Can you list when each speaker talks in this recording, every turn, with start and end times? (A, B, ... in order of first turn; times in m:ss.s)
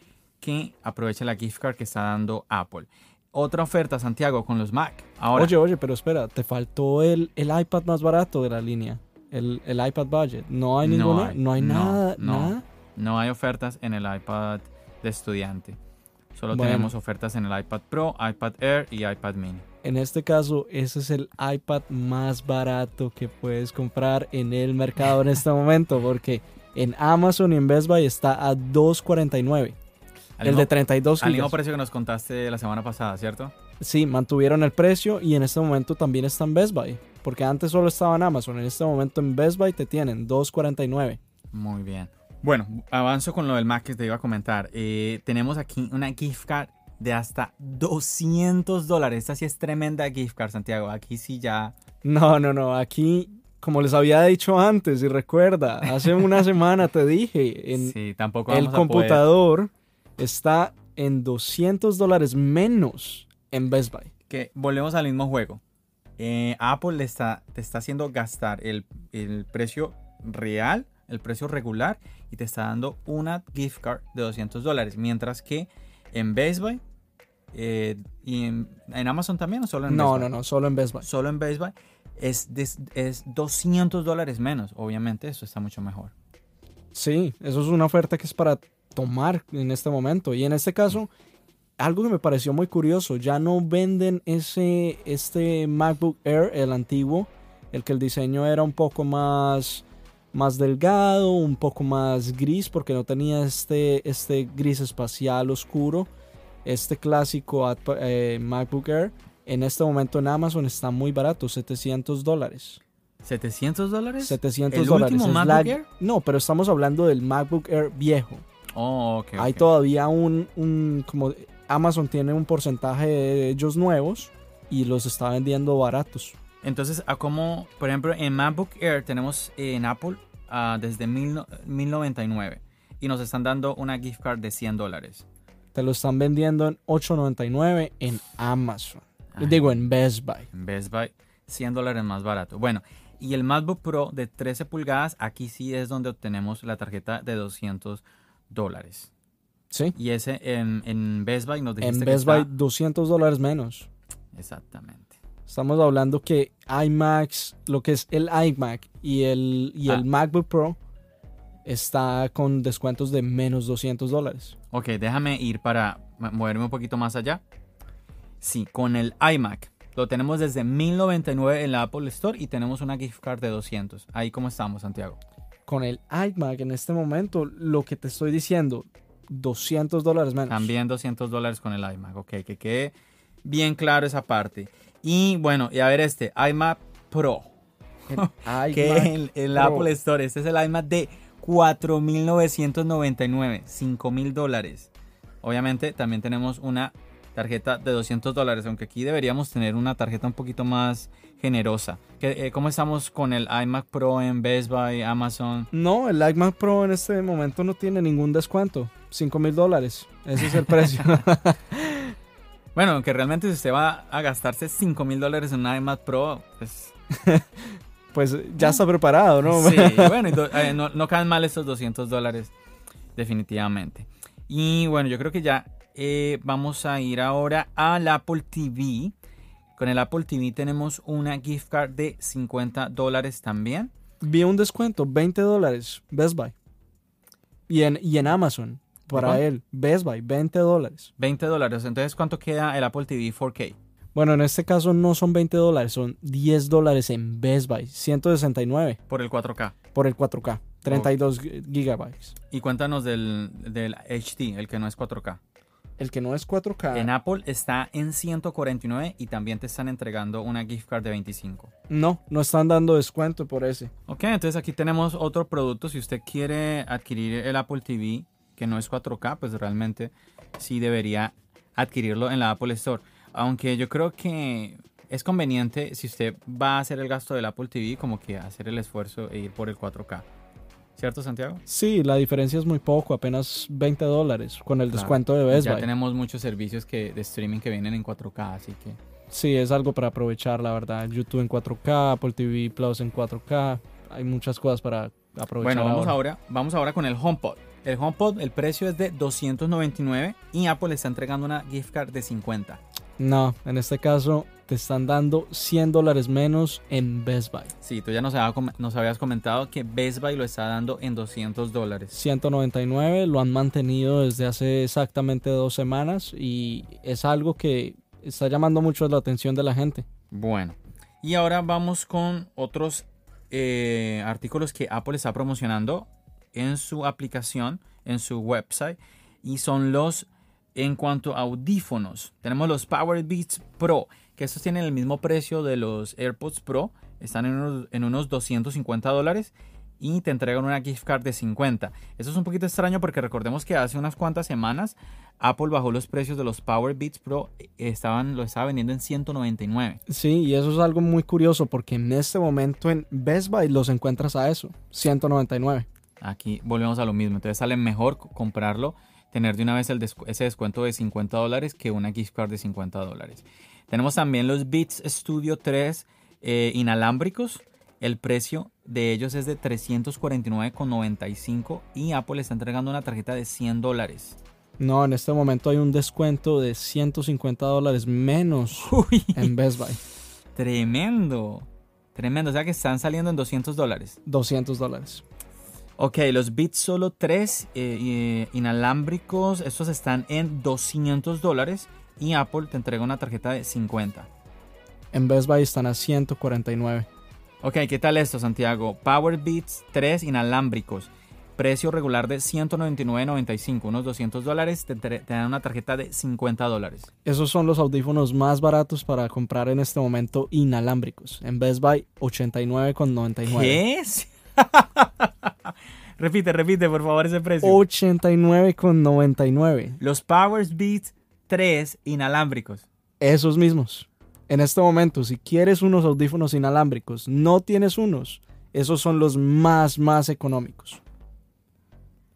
0:00.4-0:05.5 A
0:05.3-0:12.6 B
0:10.8-0:15.8 A
0:16.3-0:19.6 A
0:16.5-0:16.9 B
0:19.8-0:29.8 B
0:30.4-0:33.5 A
0:30.4-0:31.5 B
0:33.8-0:41.2 B
0:41.5-0:51.8 A
0:52.0-0:57.9 B
0:56.0-0:56.3 A
0:57.8-0:59.3 A
0:58.5-1:04.1 B
1:04.3-1:05.6 A
1:06.2-1:16.8 A
1:17.5-1:20.3 A
1:19.9-1:21.1 B
1:21.0-1:26.1 A
1:26.9-1:31.1 B
1:31.8-1:46.1 B
1:46.6-1:52.8 B
1:53.2-1:55.8 A
1:54.2-1:58.4 B
1:58.7-1:59.6 A
1:59.4-2:06.4 B
2:06.6-2:15.2 A
2:15.7-2:20.5 B
2:19.3-2:19.8 A
2:20.5-2:29.1 A
2:29.9-2:32.5 A
2:31.8-2:33.9 B
2:34.3-2:35.1 A
2:35.4-2:40.8 B
2:41.6-2:44.6 B
2:44.7-2:47.4 A
2:48.4-2:55.2 A
2:55.6-3:00.7 B
3:00.5-3:07.5 A
3:08.1-3:09.9 B
3:08.1-3:14.9 A
3:15.4-3:25.7 A
3:25.7-3:32.1 B
3:32.7-3:36.9 A
3:37.1-3:40.4 B
3:39.5-3:42.5 A
3:43.2-3:49.1 A
3:49.8-3:53.9 A
3:54.2-3:56.5 B
3:57.7-4:01.1 B
3:59.1-3:59.4 A
4:01.2-4:03.8 A
4:04.1-4:09.0 B
4:09.1-4:09.8 A
4:09.9-4:12.3 B
4:12.5-4:15.4 A
4:16.0-4:17.1 B
4:16.9-4:21.7 A
4:21.9-4:23.9 B
4:24.1-4:40.2 A
4:41.0-4:41.6 A
4:41.7-4:45.9 B
4:44.9-4:49.0 A
4:49.3-4:56.2 B
4:55.6-5:02.8 A
5:03.2-5:07.7 B
5:07.8-5:12.1 A
5:12.1-5:20.0 B
5:20.3-5:50.0 A
5:50.1-5:55.8 B
5:56.2-6:14.4 A
6:14.8-6:20.0 B
6:18.8-6:19.5 A
6:20.5-6:24.2 A
6:24.2-6:25.2 B
6:26.0-6:34.3 A
6:35.1-6:37.1 B
6:37.6-6:47.1 A
6:47.2-6:53.8 B
6:53.5-6:57.8 A
6:57.6-7:00.0 B
7:00.0-7:02.8 A
7:03.2-7:11.0 B